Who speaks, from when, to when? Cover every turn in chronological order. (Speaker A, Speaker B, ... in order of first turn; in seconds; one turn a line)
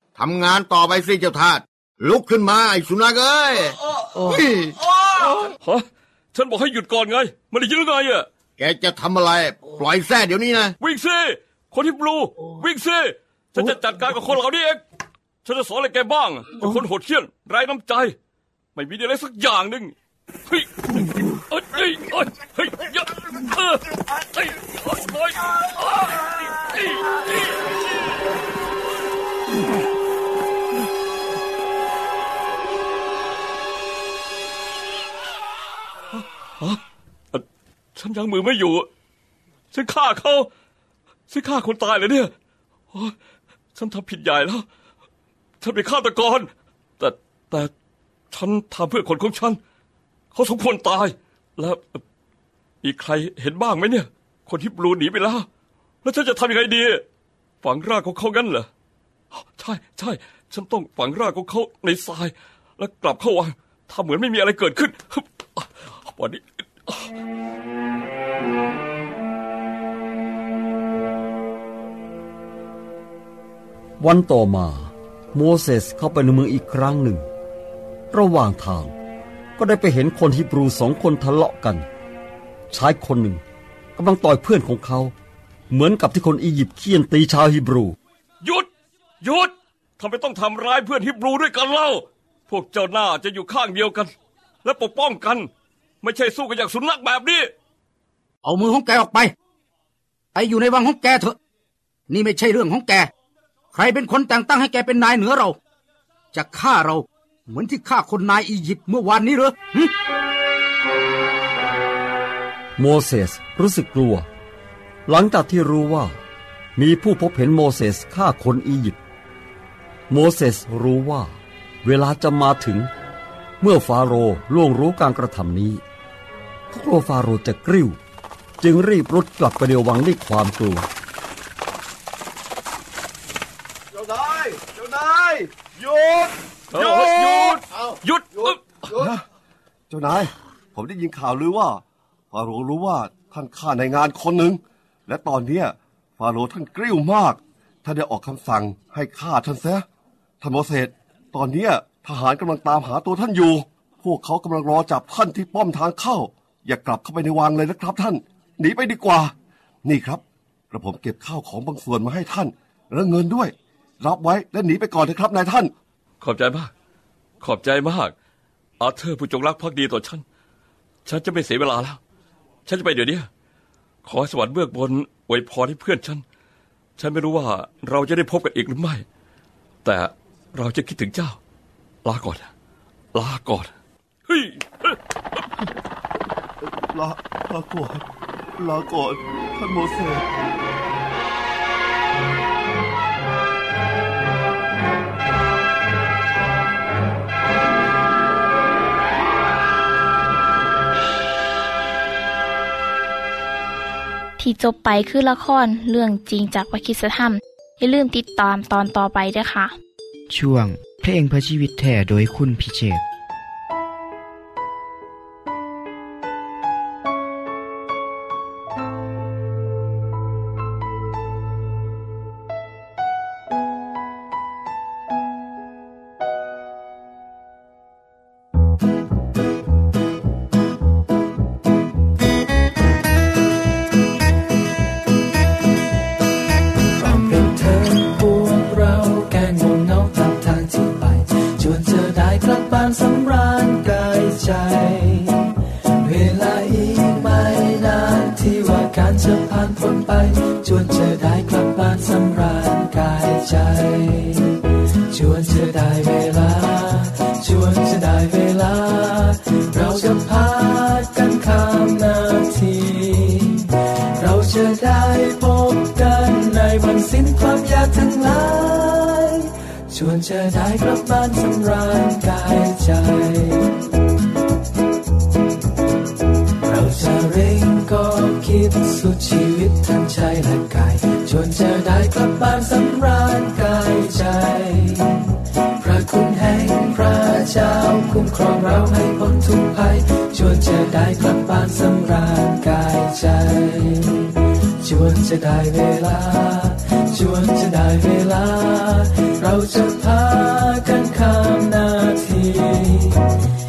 Speaker A: 0.2-4.8
Speaker B: 5.6-8.3
Speaker A: 8.6-10.7
Speaker B: 10.8-14.8
Speaker B: 15.4-18.1
Speaker B: 18.8-19.9
Speaker B: 20.5-27.7
Speaker B: 36.1-36.8
Speaker B: 38.0-38.9
Speaker B: 39.7-40.5
Speaker B: 41.3-42.3
Speaker B: 43.8-44.7
Speaker B: 45.6-47.7
Speaker B: 48.3-49.6
Speaker B: 50.3-52.0
Speaker B: 52.8-55.5
Speaker B: 56.0-57.0
Speaker B: 57.6-58.7
Speaker B: 59.3-67.1
Speaker C: 74.0-77.3
Speaker C: 78.1-78.9
Speaker C: 79.6-81.9
Speaker C: 82.7-83.4
Speaker C: 84.0-85.1
Speaker C: 85.7-88.0
Speaker B: 88.4-88.7
Speaker B: 89.2-94.1
Speaker B: 94.6-95.5
Speaker B: 96.0-97.5
Speaker D: 98.4-99.3
Speaker D: 100.3-101.4
Speaker D: 102.1-103.1
Speaker D: 103.7-105.6
Speaker D: 106.3-109.9
Speaker C: 112.8-114.3
Speaker C: 115.1-116.2
Speaker C: 116.8-119.0
Speaker C: 120.1-122.9
Speaker C: 123.6-125.8
Speaker C: 126.7-128.0
Speaker C: 128.6-130.9
Speaker E: 133.9-137.6
Speaker B: 136.7-139.0
Speaker E: 138.9-139.2
Speaker E: 139.9-149.8
Speaker E: 150.4-159.3
Speaker E: 159.8-165.7
Speaker B: 166.2-166.7
Speaker B: 167.4-168.1
Speaker B: 168.8-170.2
Speaker B: 171.1-172.0
Speaker B: 172.7-173.3
Speaker B: 174.0-176.2
Speaker B: 177.0-179.1
Speaker B: 179.8-181.4
Speaker B: 182.1-182.5
Speaker B: 183.1-183.7
Speaker B: 184.3-185.0
Speaker E: 186.8-188.1
Speaker E: 188.6-190.3
Speaker F: 204.4-209.8
Speaker G: 210.3-213.0
Speaker H: 236.9-273.7
Speaker H: 276.6-303.3